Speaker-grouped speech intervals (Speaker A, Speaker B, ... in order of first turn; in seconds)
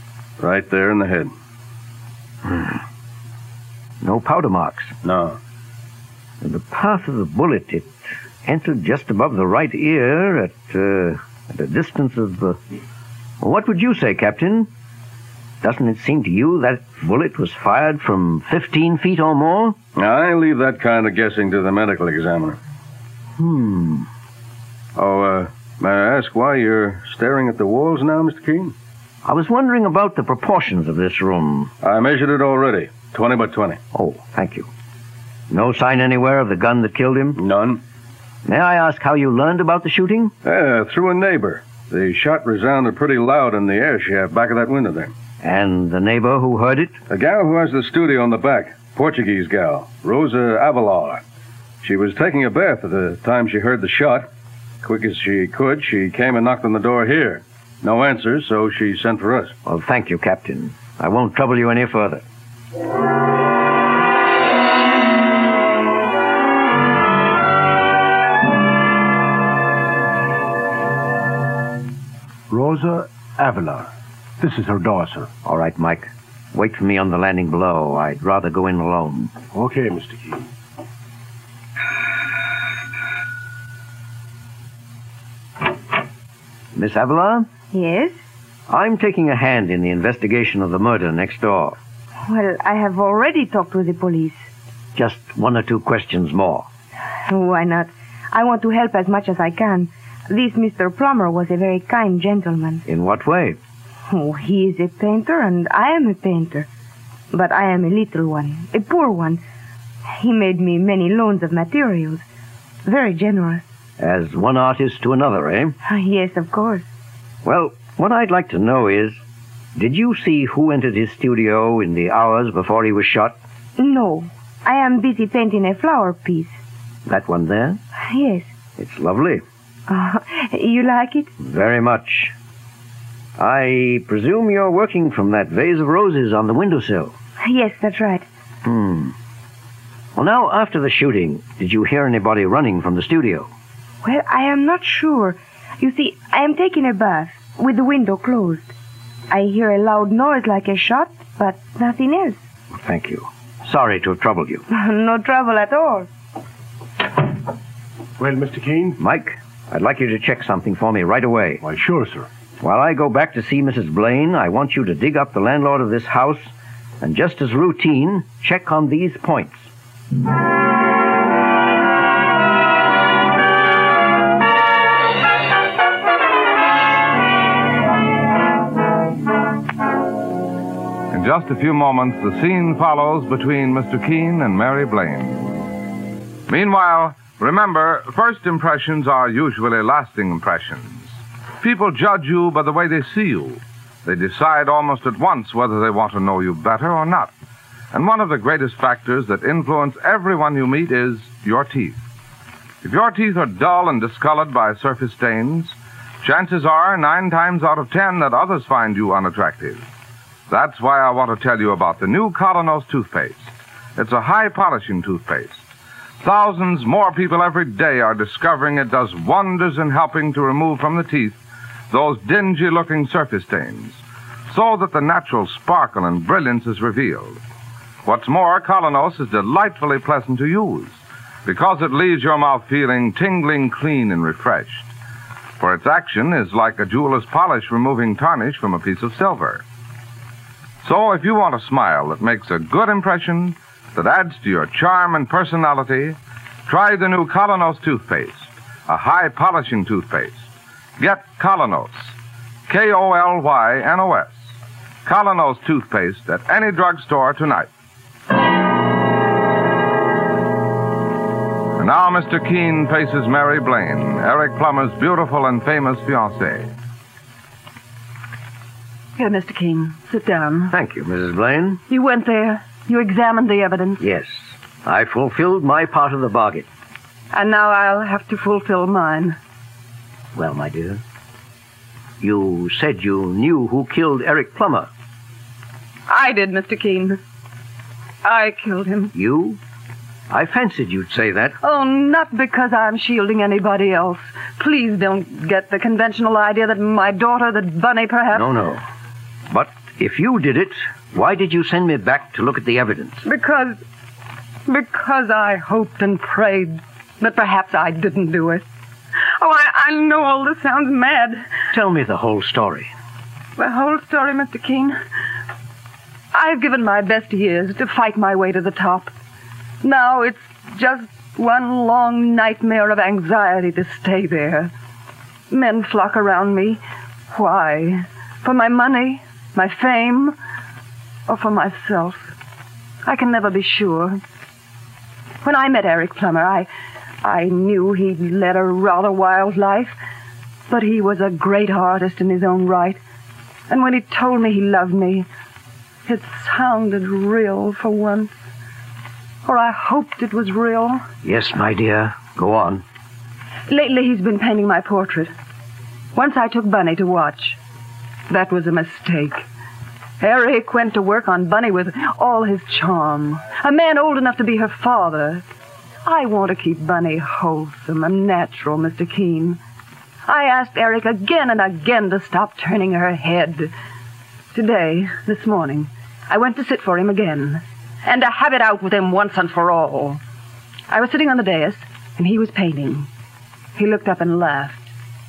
Speaker A: 0.4-1.3, 5.0-5.4, 20.0-22.6, 25.0-28.7, 31.8-33.8, 37.4-37.8, 40.4-45.1, 47.1-51.2, 51.8-54.3, 54.8-59.5
Speaker B: 2.4-2.8, 4.0-5.0, 6.4-7.9, 8.4-12.6, 13.4-14.7, 15.6-19.8, 23.4-24.1, 29.2-31.7, 33.9-34.7, 35.5-37.4, 38.5-40.3, 45.4-47.0, 59.6-62.2, 75.5-79.3, 86.8-87.5, 88.7-91.8, 95.0-96.7, 102.9-103.6, 114.0-115.8, 117.4-119.2, 119.8-123.4, 127.1-127.8, 128.8-129.4, 131.4-132.3, 133.4-137.2, 138.6-139.1, 140.2-143.5, 152.7-154.7, 159.0-161.6, 162.6-169.7, 270.7-271.8, 274.0-276.7, 280.4-281.0, 282.2-284.9, 289.1-289.6, 290.3-291.6, 298.3-298.8, 299.5-303.2, 311.7-312.9, 351.2-352.8
Speaker C: 72.5-75.3, 79.5-80.5, 158.2-159.0, 161.6-162.3
Speaker D: 87.7-88.2, 92.2-94.5, 97.3-102.8, 104.1-106.7, 107.3-109.4, 110.1-112.2, 112.8-113.7, 115.8-116.9, 123.8-126.6, 128.0-128.5, 129.9-131.3, 137.4-138.3, 144.0-148.7, 149.3-152.4, 154.7-156.1
Speaker E: 181.1-185.6, 186.5-197.3, 197.9-202.0, 202.8-209.8, 210.5-215.6, 216.2-227.4, 228.1-234.9, 235.6-239.6, 240.8-250.4, 251.0-252.1, 252.7-254.4, 255.1-257.7, 261.8-266.7
Speaker F: 269.2-270.7, 271.9-274.0, 277.3-279.4, 286.1-287.2, 288.2-289.1, 291.6-298.5, 303.2-303.8, 304.7-308.7, 309.4-311.5, 313.6-315.0, 316.3-319.1, 319.8-324.7, 325.5-326.8, 327.3-330.4, 331.3-332.3, 333.0-334.2, 335.4-336.7, 337.2-340.0, 340.7-343.0, 343.7-345.3, 346.1-348.4, 349.4-351.0, 353.7-355.3, 356.1-357.6, 358.3-359.4, 360.2-365.4, 366.0-369.6, 370.2-373.7, 374.5-380.2, 380.9-383.1, 383.8-384.9